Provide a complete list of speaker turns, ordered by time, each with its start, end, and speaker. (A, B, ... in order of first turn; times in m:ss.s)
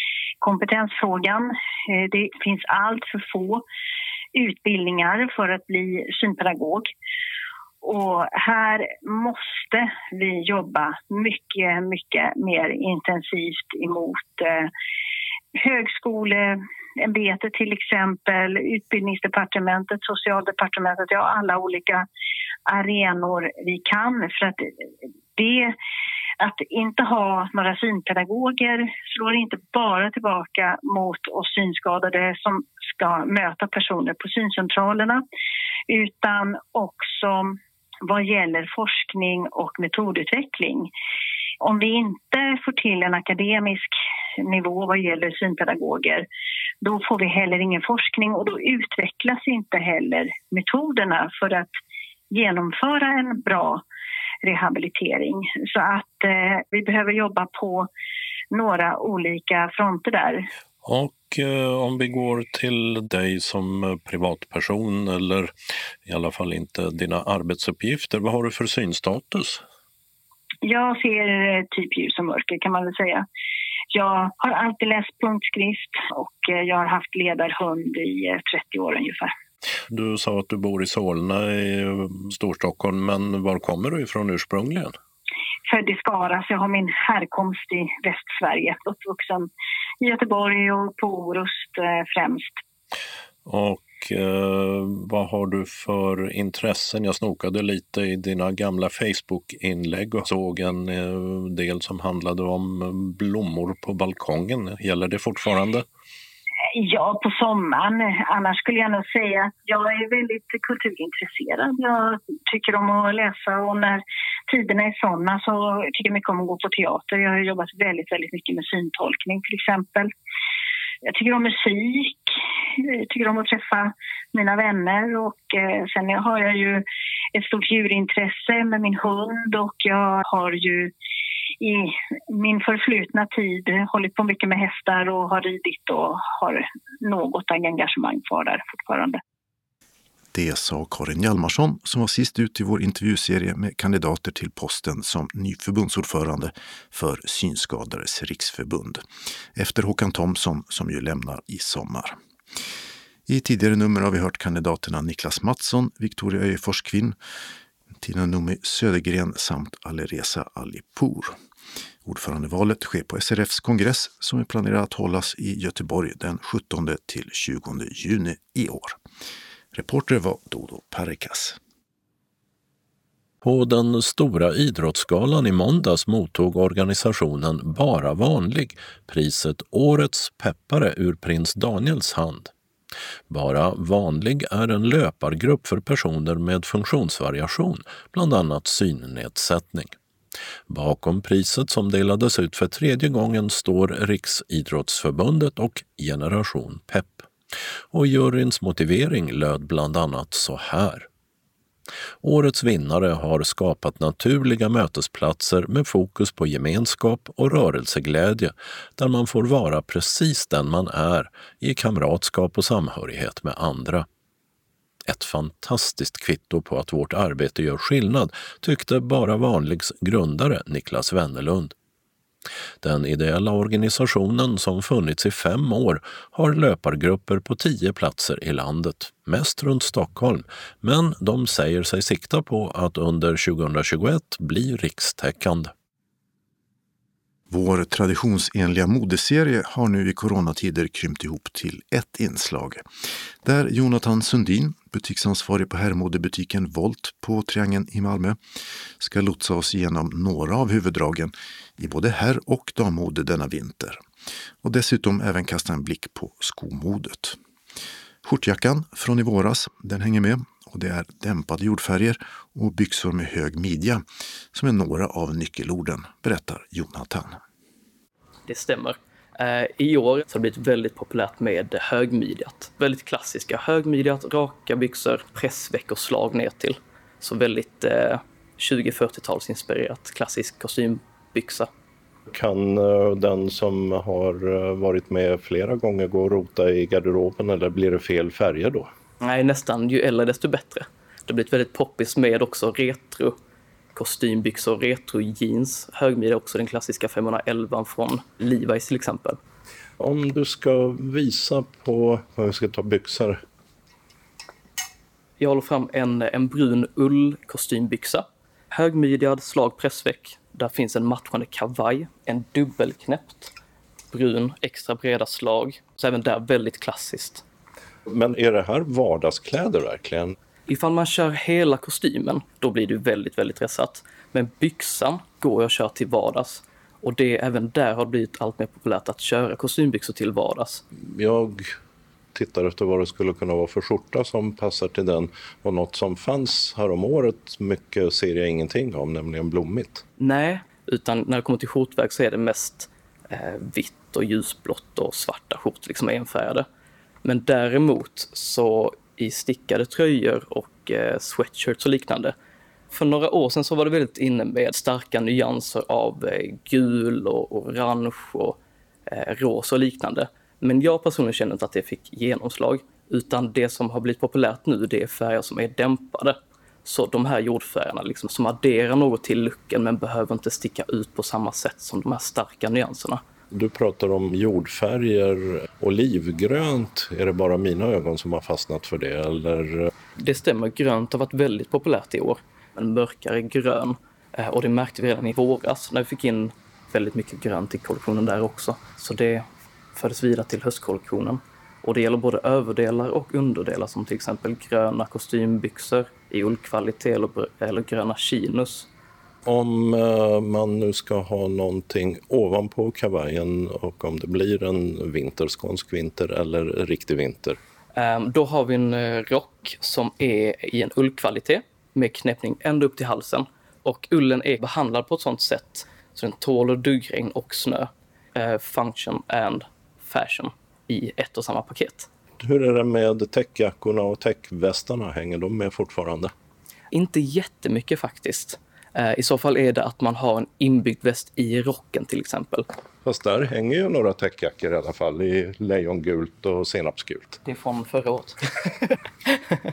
0:00.4-0:03.6 A
0:04.3-0:06.9 A
0:07.8-0:14.7 A
0:15.6-0:22.1 A
0:22.7-0:24.7 A
0:25.4-0:25.7 A
0:26.4-0:35.2 A
0:35.9-0:40.9 A
0:41.6-0:46.3 A
0:46.8-0:51.7 A
0:52.3-0:53.8 A
0:54.4-0:57.9 A
0:58.5-1:00.5 A
1:00.8-1:05.5 B
1:06.0-1:09.6 B
1:10.6-1:13.3 A
1:13.9-1:19.3 A
1:19.9-1:25.0 B
1:25.7-1:29.5 A
1:30.0-1:32.6 A
1:33.5-1:45.8 B
1:46.7-2:00.1 A
2:01.0-2:10.9 A
2:11.6-2:19.2 A
2:20.3-2:29.0 C
2:29.6-2:32.2 C
2:33.3-2:37.2 C
2:38.0-2:41.4 C
2:42.0-2:49.0 C
2:49.7-2:51.6 C
2:53.4-3:02.5 B
3:03.3-3:09.9 B
3:10.7-3:17.3 B
3:17.9-3:21.1 B
3:22.2-3:34.1 B
3:35.1-3:41.7 B
3:42.8-3:55.7 B
3:57.5-4:02.8 C
4:03.4-4:08.4 C
4:09.0-4:14.0 C
4:14.6-4:17.4 C
4:18.2-4:27.4 C
4:28.5-4:41.7 D
4:42.3-4:48.9 E
4:49.2-4:53.4 D
4:53.9-4:59.4 D
5:00.0-5:03.4 E
5:05.4-5:13.5 D
5:14.1-5:17.4 D
5:18.1-5:20.4 E
5:20.7-5:30.8 D
5:31.0-5:31.8 E
5:32.3-5:40.0 E
5:40.2-5:46.7 D
5:47.2-5:52.4 D
5:52.9-6:13.2 D
6:13.5-6:19.9 E
6:20.2-6:38.9 D
6:39.4-6:47.6 E
6:48.0-7:02.1 D
7:02.4-7:06.3 E
7:06.9-7:12.7 D
7:13.0-7:17.4 E
7:17.4-7:18.9 D